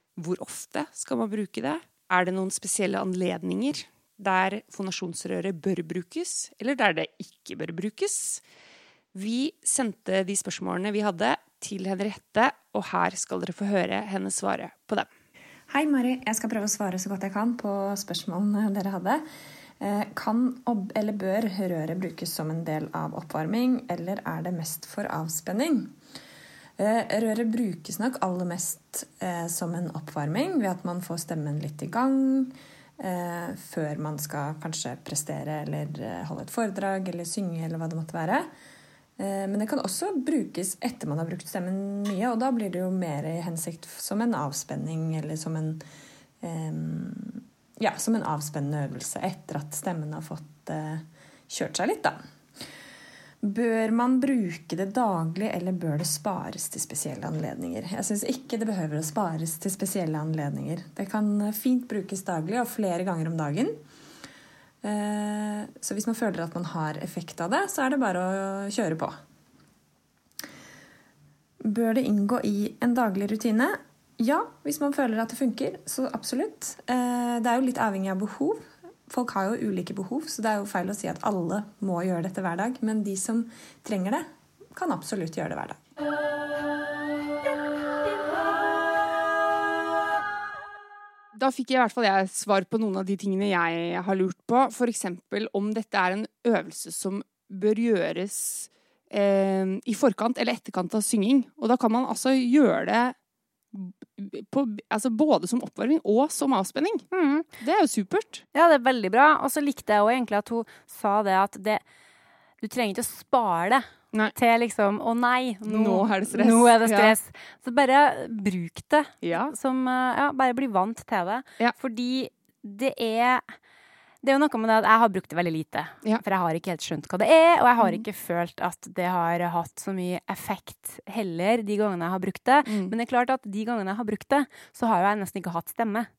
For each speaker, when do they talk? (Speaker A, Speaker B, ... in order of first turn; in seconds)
Speaker A: 0.2-8.4, 9.1-15.1, 91.3-103.1, 103.7-107.1, 107.6-108.4, 115.7-117.1, 119.2-119.5, 132.7-132.9
Speaker B: 15.7-19.2, 19.8-25.9, 26.8-38.5, 39.2-45.8, 46.4-52.2, 53.4-63.8, 64.8-69.2, 71.6-85.8
Speaker C: 107.1-107.5, 108.5-111.8, 112.6-123.5, 124.2-136.1